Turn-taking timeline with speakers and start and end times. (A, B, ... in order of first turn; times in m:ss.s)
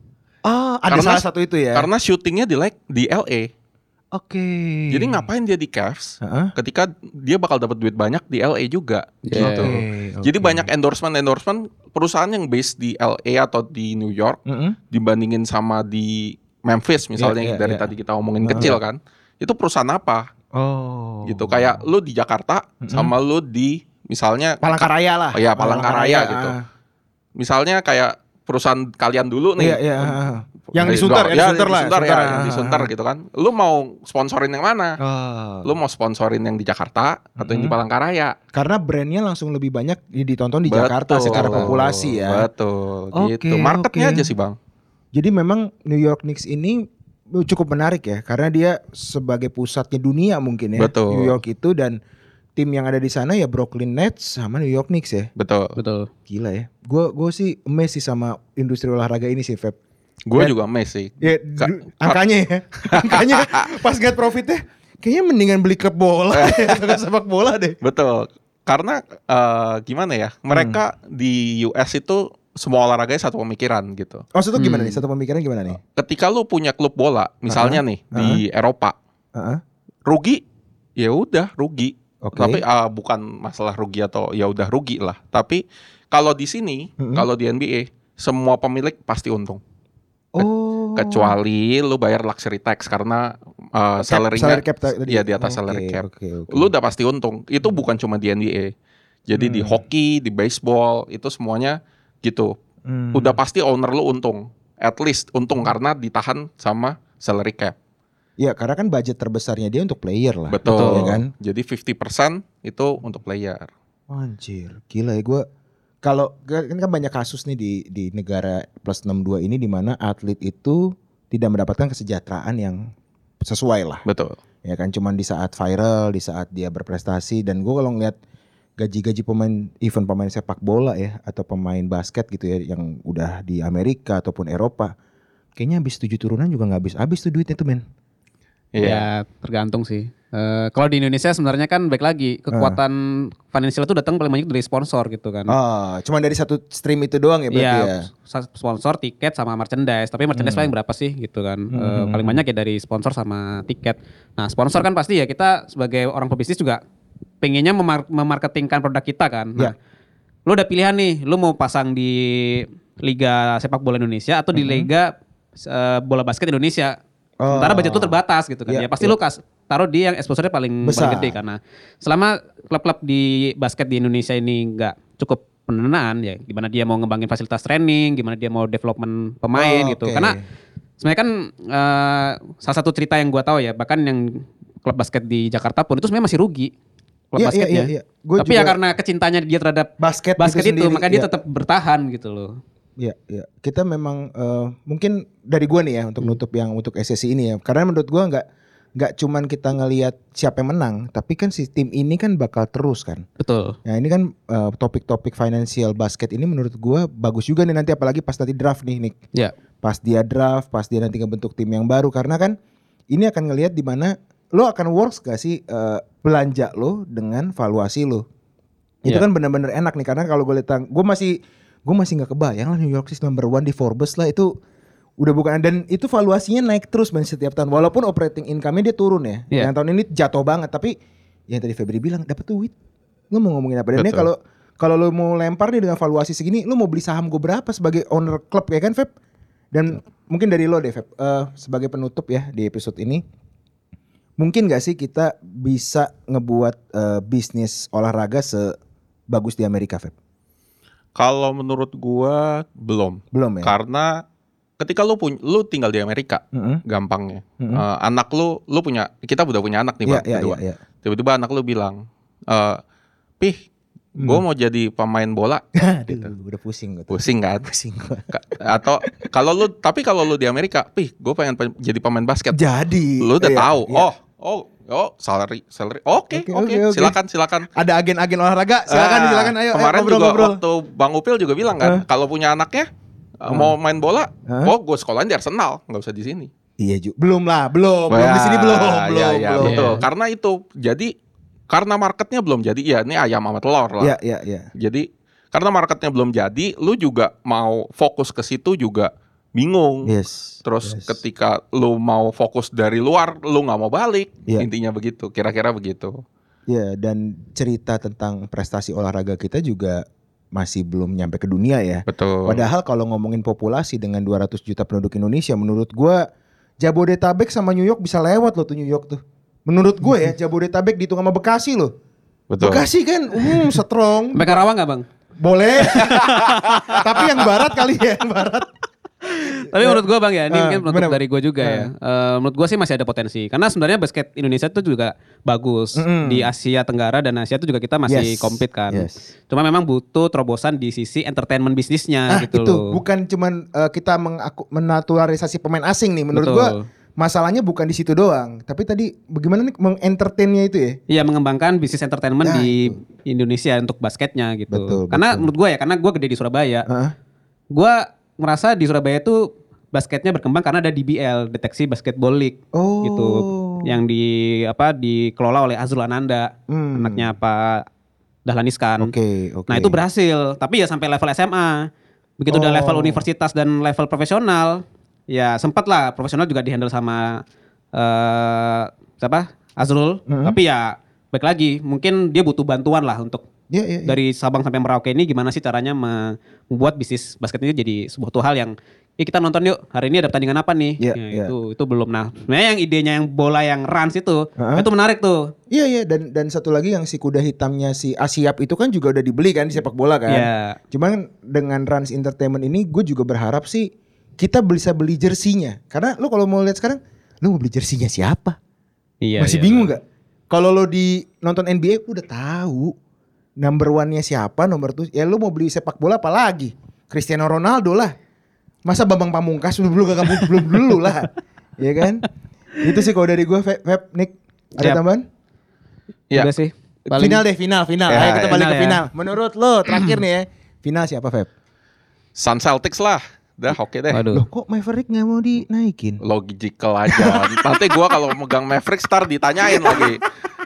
0:00.4-0:01.9 A
0:00.9-0:03.5 B
0:04.1-0:05.3 A
0:04.9-0:14.4 B
0:06.2-0:06.5 A
0:09.3-0:09.7 C
0:09.4-0:10.7 A
0:14.5-0:14.8 A
0:14.9-0:20.3 B
0:17.2-0:17.9 A
0:18.4-0:18.8 A
0:20.5-0:21.8 A
0:21.2-0:24.6 B
0:22.8-0:23.1 A
0:24.6-0:26.6 A
0:25.3-0:26.5 B
0:27.4-0:30.2 B
0:29.6-0:32.9 A
0:30.8-0:35.0 B
0:35.0-0:35.7 A
0:35.6-0:38.4 B
0:37.4-0:37.8 A
0:38.5-0:42.5 A
0:40.7-0:44.6 B
0:41.3-0:41.8 C
0:43.1-0:44.3 A
0:45.1-0:52.0 A
0:50.8-0:51.4 B
0:52.6-0:55.3 A
0:55.4-0:55.8 B
0:55.8-0:56.1 C
0:56.3-0:59.8 A
1:00.3-1:02.2 B
1:01.2-1:07.8 A
1:02.9-1:03.7 B
1:06.3-1:07.0 B
1:07.8-1:14.2 B
1:10.5-1:10.8 A
1:14.4-1:15.8 A
1:14.6-1:15.0 C
1:16.0-1:19.0 B
1:17.5-1:18.4 A
1:19.4-1:19.6 A
1:20.1-1:20.4 B
1:21.0-1:29.6 B
1:22.2-1:22.6 A
1:27.0-1:27.3 A
1:30.4-1:31.4 A
1:30.4-1:38.7 B
1:34.0-1:36.7 A
1:39.3-1:42.6 B
1:39.4-1:39.8 A
1:42.9-1:43.4 A
1:43.1-1:47.8 B
1:48.4-1:51.3 A
1:50.5-1:53.7 B
1:50.6-1:51.1 C
1:54.1-1:55.5 A
1:56.0-2:02.9 A
2:03.4-2:04.0 A
2:04.1-2:04.4 B
2:04.6-2:08.2 A
2:08.8-2:14.9 A
2:15.6-2:17.8 A
2:18.7-2:19.0 B
2:18.8-2:25.5 C
2:22.5-2:22.8 A
2:25.5-2:28.0 A
2:27.5-2:36.8 C
2:30.3-2:30.7 A
2:31.7-2:32.4 A
2:37.4-2:39.7 C
2:40.5-2:47.0 C
2:44.5-2:44.9 A
2:47.4-2:49.2 A
2:47.5-3:00.4 C
2:50.8-2:51.4 A
2:59.6-3:00.4 A
3:01.0-3:06.7 C
3:07.3-3:12.6 C
3:07.4-3:08.8 A
3:10.0-3:11.3 A
3:13.0-3:18.4 A
3:19.0-3:23.2 A
3:23.4-3:23.8 C
3:23.8-3:29.2 A
3:29.8-3:32.6 A
3:33.1-3:38.2 A
3:39.0-3:44.5 A
3:45.2-3:50.9 A
3:51.5-3:52.7 A
3:53.3-3:59.1 A
3:54.0-3:54.3 B
3:59.7-4:03.2 A
4:04.4-4:08.8 A
4:09.3-4:10.1 A
4:11.2-4:14.2 B
4:13.3-4:13.8 A
4:14.8-4:22.8 B
4:16.5-4:16.8 A
4:20.1-4:20.8 A
4:24.2-4:24.4 A
4:24.2-4:26.3 B
4:25.8-4:28.3 A
4:27.1-4:27.7 B
4:28.3-4:32.6 B
4:32.5-4:34.1 A
4:33.2-4:37.7 B
4:36.3-4:37.2 A
4:37.7-4:40.6 A
4:38.9-4:46.5 B
4:43.5-4:43.7 A
4:44.5-4:44.7 A
4:46.8-4:50.0 A
4:48.1-4:51.1 B
4:49.6-4:50.0 C
4:51.7-4:54.2 B
4:54.0-4:54.7 A
4:54.8-5:00.1 B
5:00.0-5:01.2 A
5:00.6-5:06.2 B
5:06.7-5:16.3 A
5:12.1-5:12.7 B
5:16.8-5:21.9 A
5:22.5-5:22.8 B
5:22.6-5:24.6 A
5:24.3-5:25.1 C
5:25.4-5:26.3 A
5:25.8-5:27.5 C
5:26.9-5:28.7 A
5:29.2-5:43.0 C
5:29.7-5:31.9 A
5:36.0-5:36.5 A
5:38.1-5:39.3 A
5:42.3-5:51.0 A
5:46.3-5:46.9 C
5:51.1-5:56.9 C
5:52.4-5:53.0 A
5:54.7-5:55.5 A
5:56.9-5:57.1 A
5:57.7-6:07.9 C
6:02.7-6:04.0 A
6:06.7-6:07.3 A
6:08.5-6:09.1 C
6:09.0-6:10.0 A
6:09.7-6:17.4 C
6:12.5-6:13.2 A
6:17.9-6:23.4 C
6:20.3-6:20.6 A
6:23.7-6:24.2 A
6:24.0-6:35.5 C
6:31.0-6:31.6 A
6:34.6-6:34.9 A
6:35.7-6:48.6 A
6:40.3-6:40.8 C
6:49.2-6:49.9 C
6:49.4-6:53.0 A
6:53.6-6:58.2 A
6:58.9-7:02.3 A
7:02.8-7:05.3 A
7:06.3-7:07.4 C
7:07.1-7:11.5 A
7:08.1-7:08.6 B
7:08.2-7:09.1 C
7:12.4-7:14.3 B
7:14.1-7:14.5 C
7:14.3-7:16.2 A
7:16.2-7:20.2 B
7:17.1-7:18.1 A
7:19.6-7:20.2 A